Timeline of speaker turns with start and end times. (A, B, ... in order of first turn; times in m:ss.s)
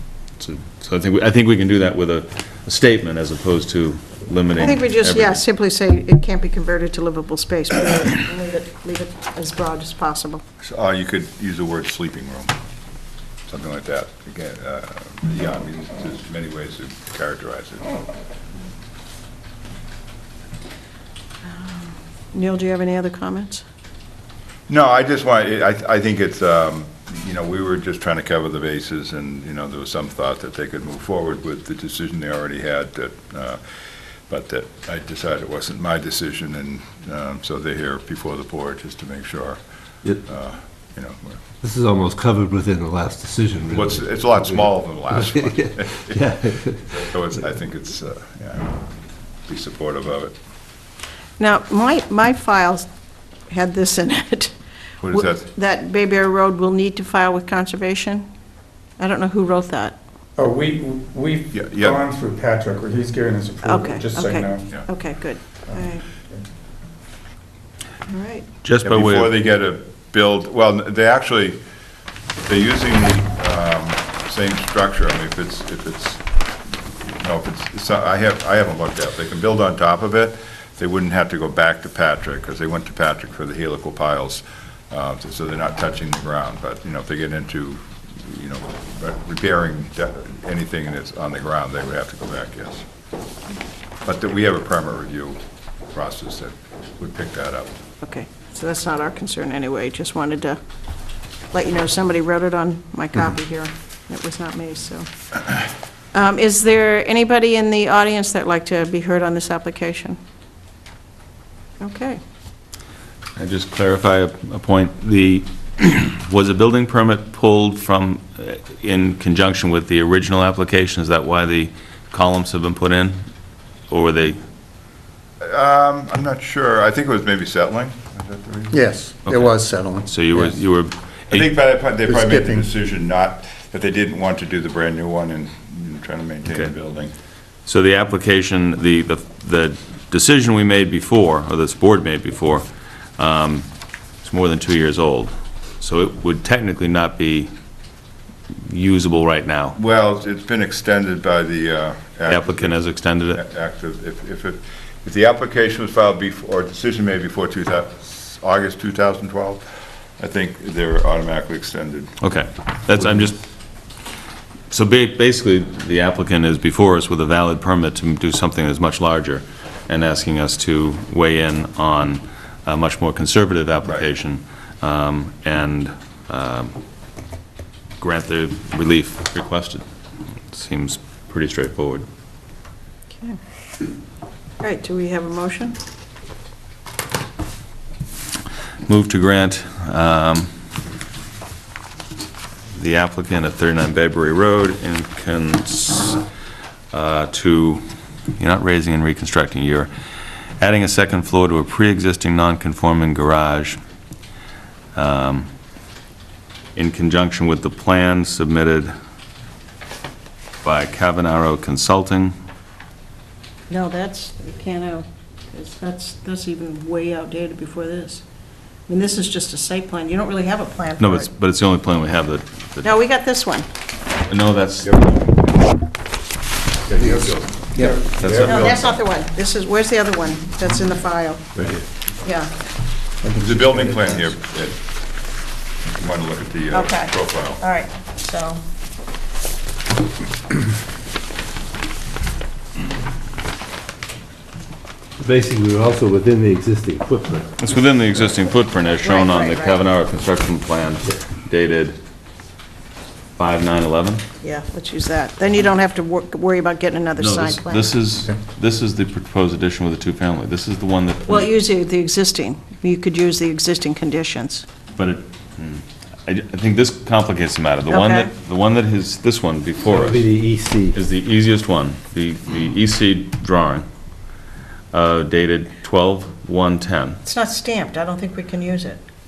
0:00.4-0:05.4 A
0:04.6-0:10.4 B
0:10.6-0:12.5 C
0:13.5-0:17.9 C
0:21.4-0:23.6 B
0:24.7-0:33.6 C
0:34.3-0:39.6 C
0:40.1-0:41.4 C
0:41.6-0:44.6 D
0:43.7-0:48.8 C
0:45.2-0:46.7 D
0:49.5-0:50.3 C
0:51.4-0:52.8 B
0:53.5-0:54.5 B
0:55.0-0:55.4 C
0:55.0-0:58.2 B
0:59.0-1:00.0 B
1:00.4-1:04.8 E
1:01.5-1:02.0 C
1:03.6-1:06.0 B
1:08.1-1:08.4 B
1:08.6-1:09.3 A
1:08.8-1:11.6 C
1:12.4-1:16.2 C
1:17.2-1:32.8 C
1:34.0-1:35.4 C
1:35.9-1:37.7 C
1:38.0-1:40.6 B
1:41.5-1:45.1 B
1:46.1-1:50.2 B
1:51.8-1:52.2 B
1:53.4-2:03.2 A
2:03.9-2:04.4 A
2:05.4-2:08.8 C
2:08.7-2:10.1 F
2:09.2-2:11.5 A
2:11.3-2:17.1 C
2:12.0-2:12.7 F
2:17.6-2:22.6 A
2:23.2-2:23.7 A
2:24.2-2:27.5 A
2:28.7-2:29.8 A
2:29.8-2:39.6 C
2:32.3-2:33.4 A
2:40.2-2:42.1 C
2:42.2-2:43.4 A
2:44.7-2:56.8 A
2:58.0-2:59.8 A
3:00.5-3:02.0 A
3:04.6-3:05.8 B
3:08.8-3:10.5 A
3:12.7-3:16.2 A
3:16.9-3:17.8 A
3:18.4-3:19.9 A
3:20.6-3:23.8 A
3:24.9-3:25.5 A
3:26.7-3:28.9 A
3:30.6-3:32.3 A
3:33.7-3:38.2 B
3:38.9-3:41.3 B
3:41.0-3:42.9 A
3:42.8-3:43.7 B
3:44.3-3:45.2 A
3:44.8-3:45.6 C
3:46.8-3:47.9 C
3:48.2-3:48.8 A
3:48.4-3:51.5 B
3:48.5-3:48.8 C
3:52.2-3:52.5 B
3:53.2-3:54.0 E
3:53.4-3:54.8 C
3:55.9-3:57.6 C
3:56.7-3:58.6 B
4:05.2-4:07.5 D
4:07.6-4:12.0 A
4:08.8-4:09.8 B
4:13.4-4:14.2 A
4:14.4-4:17.9 B
4:17.2-4:21.5 A
4:21.3-4:24.6 B
4:25.0-4:30.3 A
4:27.9-4:28.3 B
4:29.9-4:31.0 D
4:30.9-4:33.8 A
4:34.9-4:37.2 A
4:37.2-4:39.0 B